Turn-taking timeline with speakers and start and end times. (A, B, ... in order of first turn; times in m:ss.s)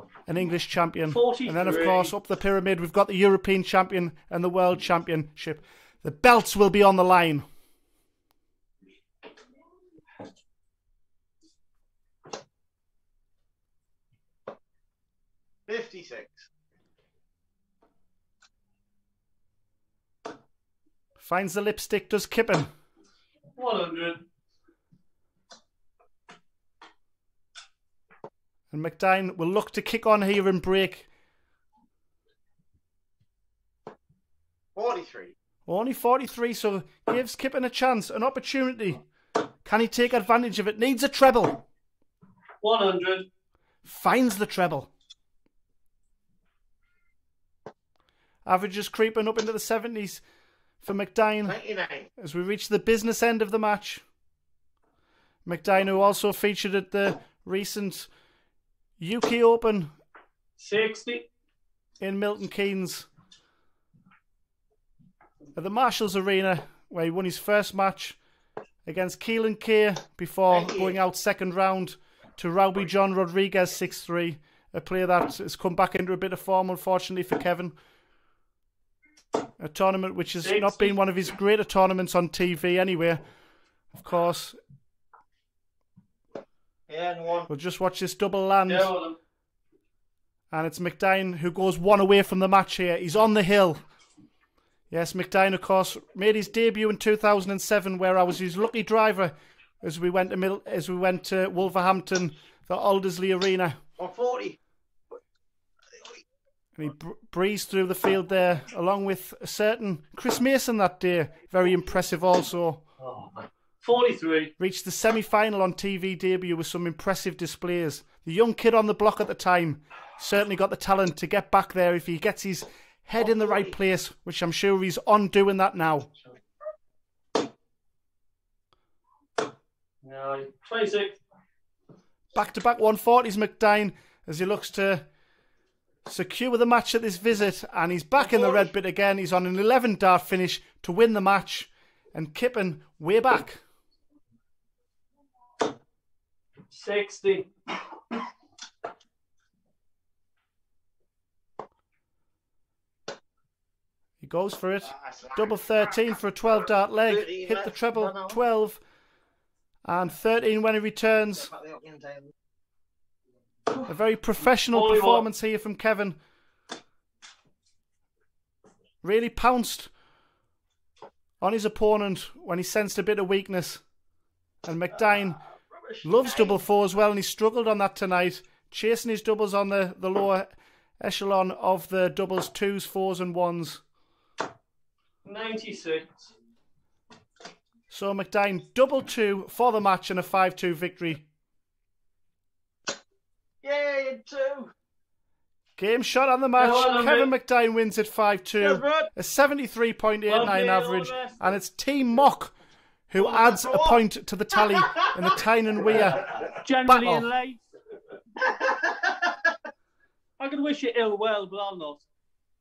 0:00.3-0:07.4 A
0:01.1-0:02.1 B
0:15.7-0:16.5 C
0:21.2-0:22.7 A
0:23.6-0:24.2 B
0:28.7-0:31.1 A
0:34.8-0:35.4 C
0:35.7-0:39.0 A
0:39.6-0:41.6 A
0:42.6-0:43.3 B
0:43.8-0:44.9 A
0:48.4-0:50.2 A
0:50.8-0:51.6 A
0:51.5-0:52.1 C
0:52.2-0:54.0 A
0:55.4-0:58.1 A
0:59.0-0:59.9 A
1:00.6-1:01.3 B
1:02.0-1:03.1 A
1:05.6-1:08.2 A
1:08.8-1:17.8 A
1:10.5-1:11.0 C
1:19.6-1:23.2 A
1:20.4-1:20.9 B
1:23.9-1:24.6 A
1:26.9-1:27.5 C
1:27.5-1:28.9 A
1:28.7-1:29.2 B
1:30.5-1:33.8 A
1:34.9-1:43.8 A
1:44.0-1:44.6 C
1:46.8-1:52.8 A
1:53.0-1:54.5 B
1:54.6-2:06.1 A
2:03.2-2:03.8 C
2:10.0-2:11.2 B
2:12.3-2:15.1 A
2:16.0-2:23.6 A
2:26.7-2:27.5 B
2:34.2-2:38.8 A
2:34.8-2:35.5 C
2:37.0-2:38.4 C
2:39.8-2:41.5 A
2:41.4-2:42.3 C
2:43.8-2:46.2 A
2:44.7-2:45.2 B
2:49.0-2:49.9 A
2:51.4-2:53.8 A
2:54.6-2:55.4 A
2:55.8-2:56.6 C
2:56.0-3:03.8 A
3:05.2-3:06.2 B
3:07.9-3:11.2 A
3:13.6-3:14.7 C
3:15.8-3:22.6 A
3:16.6-3:17.3 B
3:18.6-3:19.1 C
3:20.3-3:21.4 B
3:23.1-3:26.3 A
3:23.2-3:24.0 C
3:26.3-3:27.6 B
3:26.8-3:27.3 A
3:28.6-3:29.0 C
3:30.4-3:32.0 B